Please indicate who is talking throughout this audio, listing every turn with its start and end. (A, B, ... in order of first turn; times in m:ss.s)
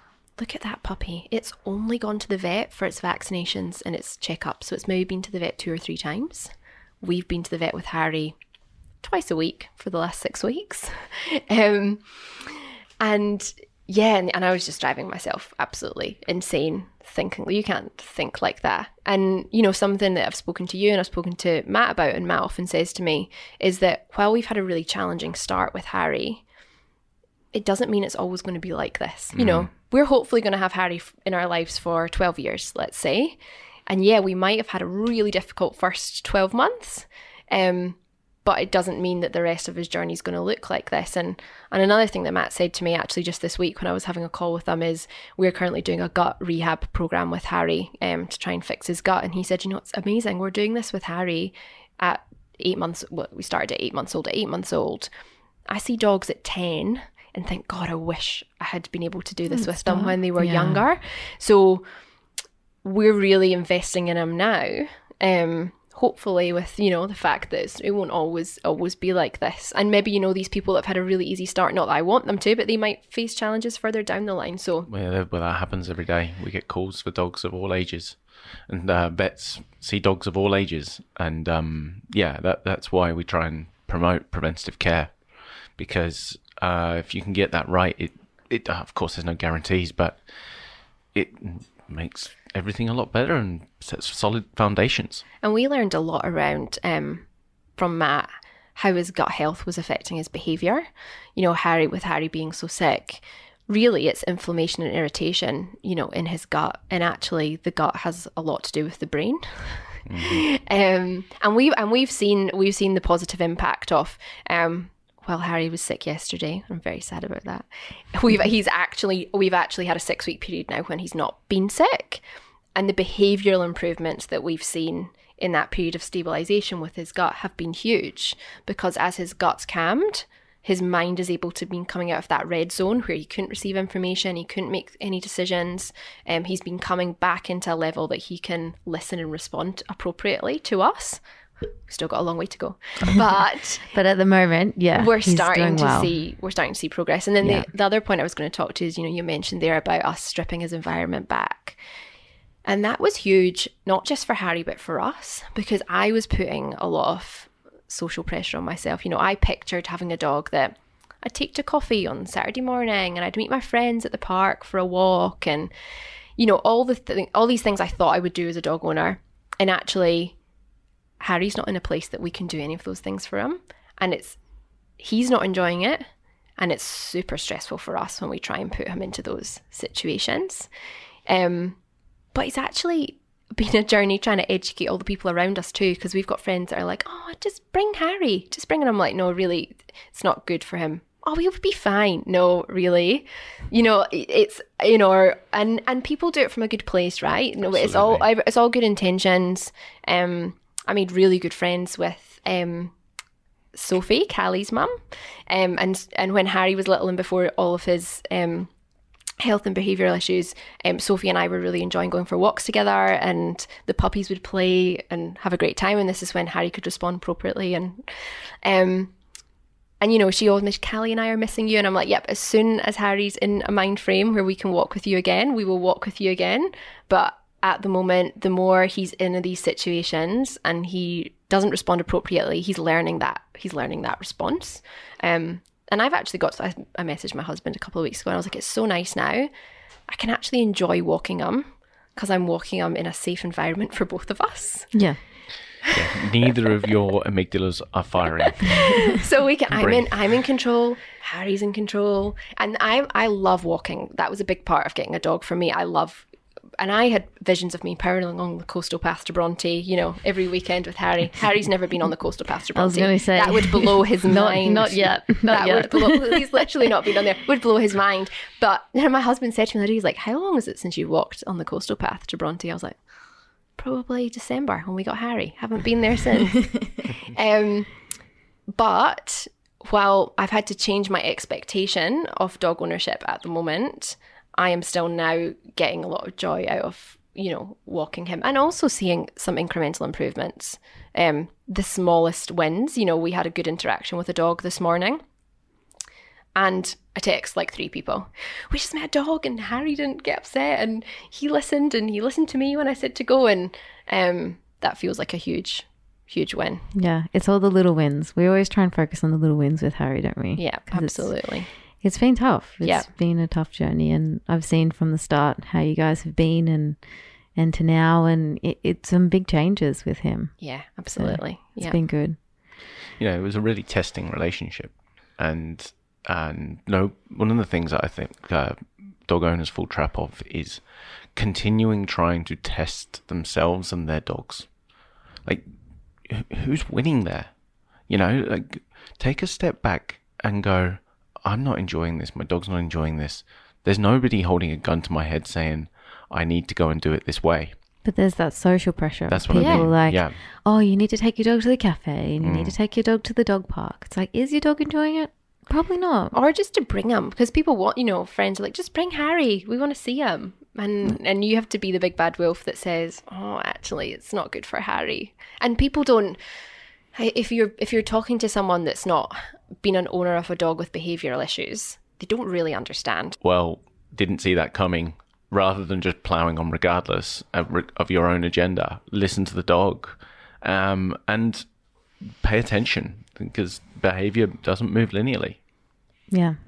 0:00.4-0:08.4 A
0:09.0-0:26.4 A
0:27.5-0:55.1 A
0:29.4-0:29.7 B
0:55.7-1:01.8 A
0:59.5-1:00.8 C
1:02.8-1:14.9 A
1:14.9-1:25.2 B
1:25.8-1:30.2 B
1:31.1-1:35.2 B
1:35.4-1:37.3 A
1:37.8-2:02.2 A
1:50.1-1:50.4 B
2:02.8-2:21.2 A
2:21.9-2:24.0 A
2:23.9-2:26.1 C
2:25.0-2:31.8 A
2:27.4-2:27.7 C
2:32.7-2:45.7 A
2:46.4-2:50.4 A
2:51.2-2:54.4 A
2:55.0-2:56.1 A
2:56.6-3:00.7 A
3:01.3-3:01.8 A
3:02.3-3:22.9 A
3:17.7-3:18.3 B
3:23.7-3:28.7 A
3:29.4-3:39.1 A
3:40.0-3:59.5 A
4:00.1-4:05.0 A
4:04.9-4:05.2 C
4:05.8-4:09.2 B
4:08.7-4:16.3 A
4:09.7-4:10.4 B
4:16.8-4:33.0 A
4:22.7-4:26.5 C
4:33.8-4:37.9 A
4:38.7-4:55.2 A
4:56.6-5:06.9 A
5:06.9-5:17.0 C
5:10.6-5:11.7 A
5:12.8-5:13.1 A
5:17.6-5:22.4 C
5:20.6-5:22.0 A
5:23.2-5:34.8 B
5:36.2-5:47.8 B
5:48.0-5:56.4 C
5:49.3-5:50.4 B
5:49.5-5:49.9 A
5:52.4-5:52.8 B
5:56.3-6:06.4 A
6:07.1-6:13.4 A
6:13.4-6:21.7 B
6:22.2-6:25.6 B
6:26.3-6:26.6 C